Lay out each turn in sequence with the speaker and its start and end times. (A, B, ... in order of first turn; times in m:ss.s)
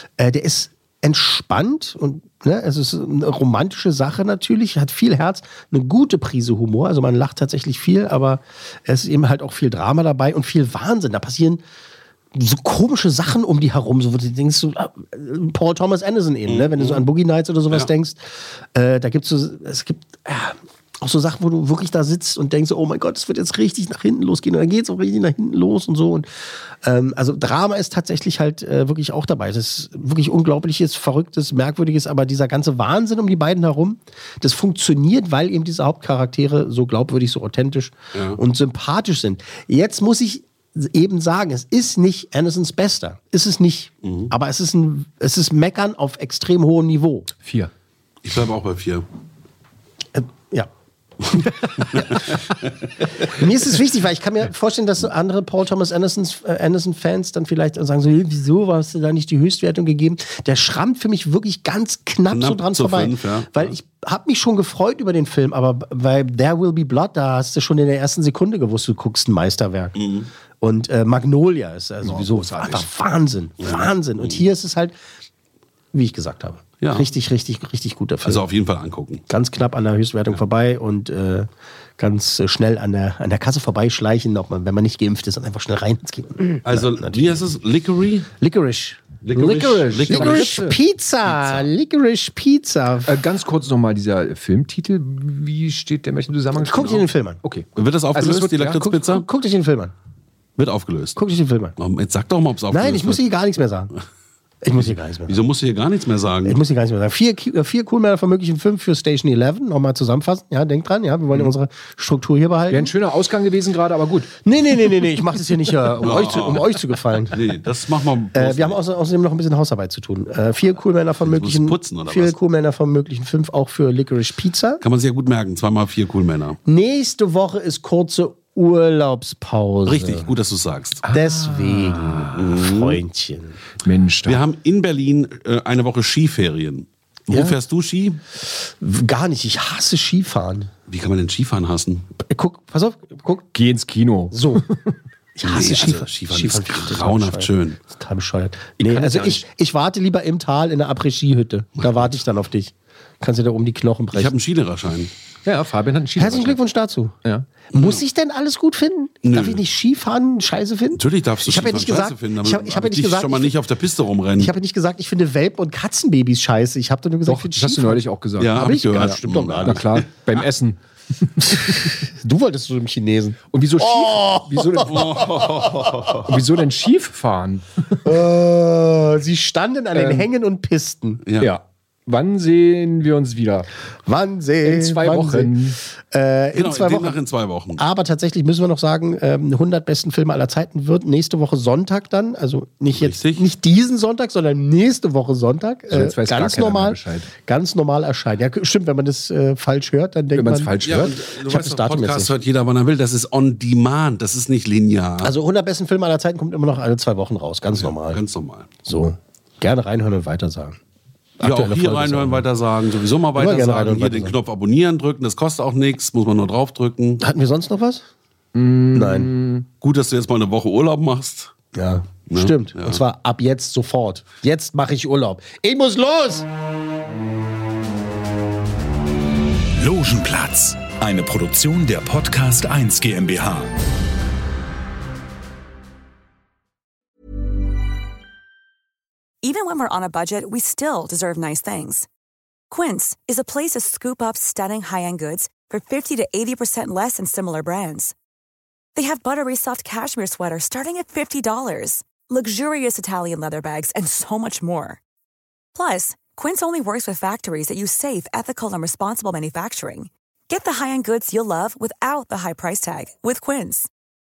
0:00.2-0:11.6 A
0:12.3-0:26.3 A
0:16.5-0:17.0 B
0:26.8-0:47.3 A
0:44.0-0:44.3 B
0:47.4-0:47.7 C
0:48.2-0:49.0 B
0:50.1-0:50.7 A
0:53.2-1:10.0 A
1:02.3-1:03.7 B
1:10.0-1:10.3 B
1:10.6-1:14.9 A
1:12.0-1:12.9 C
1:13.6-1:14.4 B
1:15.9-1:18.4 A
1:16.8-1:17.0 B
1:18.2-1:19.2 B
1:19.3-1:27.4 A
1:26.6-1:28.3 B
1:28.4-1:29.0 A
1:29.2-1:30.7 B
1:29.3-1:30.8 C
1:30.1-1:33.1 A
1:31.3-1:31.6 B
1:33.0-1:38.8 C
1:36.6-1:37.4 A
1:37.8-1:39.2 B
1:38.2-1:39.9 A
1:40.6-1:41.2 B
1:41.2-1:41.7 A
1:41.8-1:43.2 B
1:42.7-1:43.9 A
1:44.6-1:45.4 A
1:44.8-1:46.6 B
1:46.4-1:52.9 A
1:52.7-1:54.3 C
1:54.4-1:57.4 A
1:56.0-1:56.6 B
1:56.0-1:56.6 C
1:57.3-1:58.8 B
1:58.3-2:04.8 A
2:01.2-2:02.3 B
2:04.8-2:06.6 B
2:06.6-2:10.3 A
2:09.8-2:11.0 B
2:11.0-2:12.4 C
2:11.1-2:13.6 A
2:12.3-2:13.0 B
2:13.8-2:14.4 C
2:14.2-2:18.2 B
2:17.3-2:17.6 A
2:18.6-2:20.7 A
2:20.9-2:22.1 B
2:22.2-2:23.5 A
2:23.5-2:24.8 C
2:24.3-2:24.6 A
2:25.4-2:34.3 A
2:25.4-2:27.8 B
2:28.8-2:29.4 C
2:34.1-2:35.1 B
2:35.4-2:36.6 C
2:36.2-2:37.2 A
2:37.7-2:43.5 A
2:37.7-2:38.0 B
2:39.2-2:39.6 B
2:40.9-2:44.5 B
2:44.4-2:49.8 A
2:47.2-2:52.0 C
2:48.4-2:50.1 B
2:51.5-2:56.3 A
2:53.5-2:55.5 C
2:54.9-2:56.2 B
2:56.2-2:57.9 C
2:58.0-3:01.2 A
2:59.9-3:00.3 C
3:01.2-3:01.5 B
3:01.4-3:03.7 C
3:04.1-3:05.5 A
3:04.6-3:05.8 C
3:06.1-3:07.2 A
3:06.5-3:07.8 B
3:07.8-3:22.3 A
3:12.9-3:13.5 B
3:15.9-3:17.3 C
3:20.3-3:21.1 C
3:20.8-3:25.3 B
3:25.2-3:28.2 A
3:27.7-3:28.7 B
3:28.8-3:30.8 A
3:31.4-3:32.4 A
3:31.4-3:37.2 B
3:33.4-3:34.3 A
3:37.2-3:38.0 A
3:38.5-3:39.6 C
3:38.9-3:39.3 A
3:39.8-3:41.5 B
3:41.7-3:46.4 A
3:42.3-3:43.0 B
3:49.8-3:53.7 D
3:59.4-4:02.1 E
4:02.7-4:08.1 E
4:08.9-4:15.0 E
4:15.7-4:23.9 E